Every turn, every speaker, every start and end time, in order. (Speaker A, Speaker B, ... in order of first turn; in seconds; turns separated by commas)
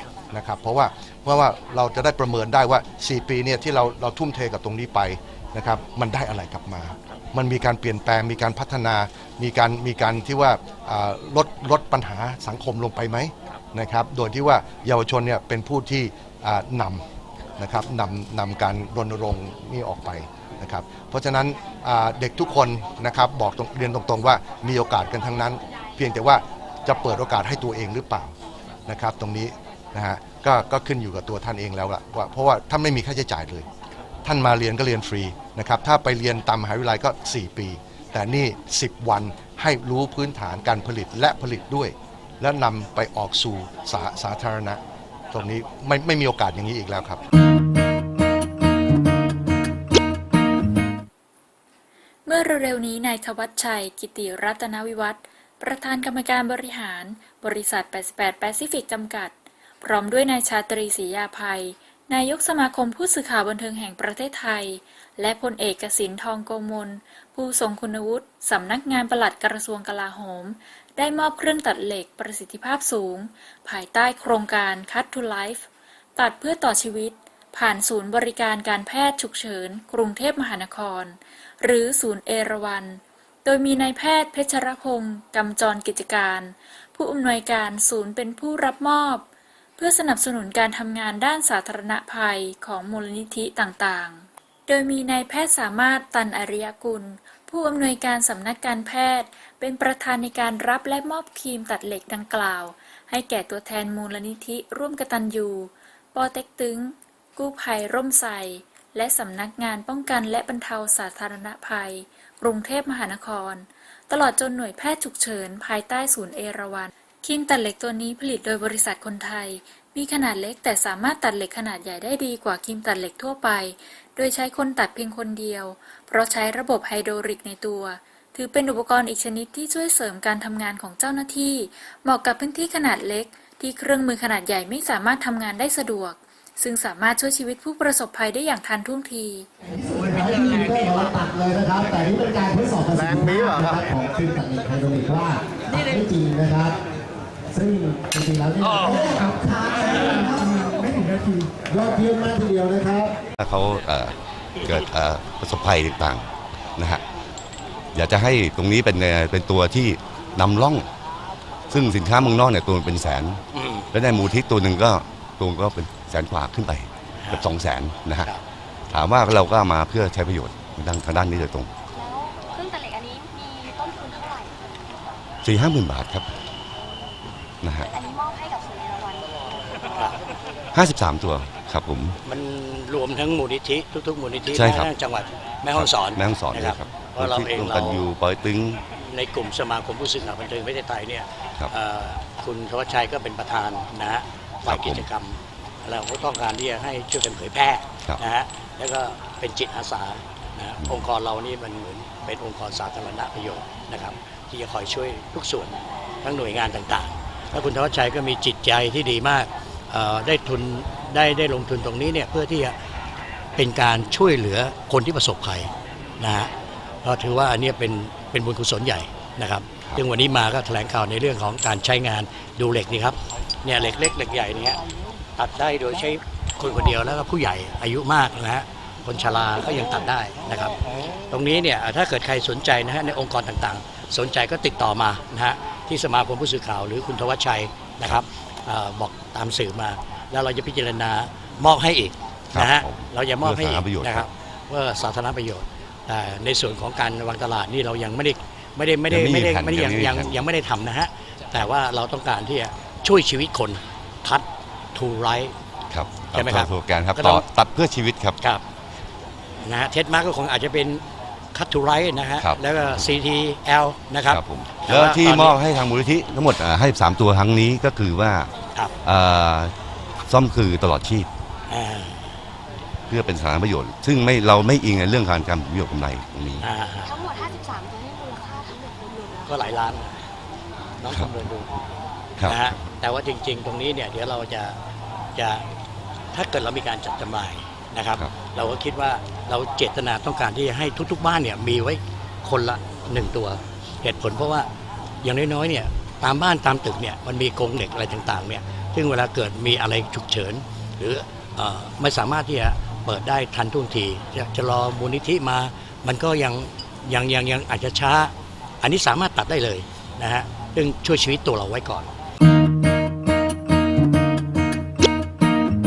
Speaker A: 0.3-17.0, Speaker A: 17.6-28.4, Speaker A: 28.9-33.7, Speaker A: 34.2-47.2, Speaker B: 52.3-89.3, Speaker B: 89.8-139.5, Speaker C: 139.7-146.8, Speaker C: 147.5-153.2, Speaker D: 153.4-156.2, Speaker D: 157.9-160.9, Speaker D: 161.7-163.4, Speaker E: 163.5-163.9, Speaker D: 163.9-168.3, Speaker E: 167.2-167.5, Speaker D: 168.9-171.7, Speaker F: 171.9-174.8, Speaker D: 175.4-176.3, Speaker D: 177.6-177.9, Speaker F: 177.9-179.5, Speaker D: 180.7-182.2, Speaker E: 182.2-188.1, Speaker D: 184.5-184.9, Speaker D: 185.7-188.8, Speaker E: 189.0-212.7, Speaker D: 194.7-195.1, Speaker E: 213.6-216.5, Speaker E: 217.0-224.8, Speaker E: 225.4-230.8, Speaker E: 231.3-255.5, Speaker D: 242.5-244.3, Speaker D: 249.1-250.4, Speaker D: 255.9-258.4, Speaker E: 256.3-257.4, Speaker E: 259.6-261.0, Speaker E: 261.6-265.6, Speaker D: 262.4-263.0, Speaker D: 264.3-268.5, Speaker D: 269.0-269.7, Speaker D: 270.3-271.3, Speaker E: 271.7-272.3, Speaker D: 273.1-276.7, Speaker E: 276.6-277.2, Speaker F: 277.1-279.6, Speaker E: 279.5-280.2, Speaker E: 281.0-281.7, Speaker E: 282.4-284.8, Speaker E: 285.4-285.6, Speaker E: 286.3-294.7, Speaker E: 295.2-312.1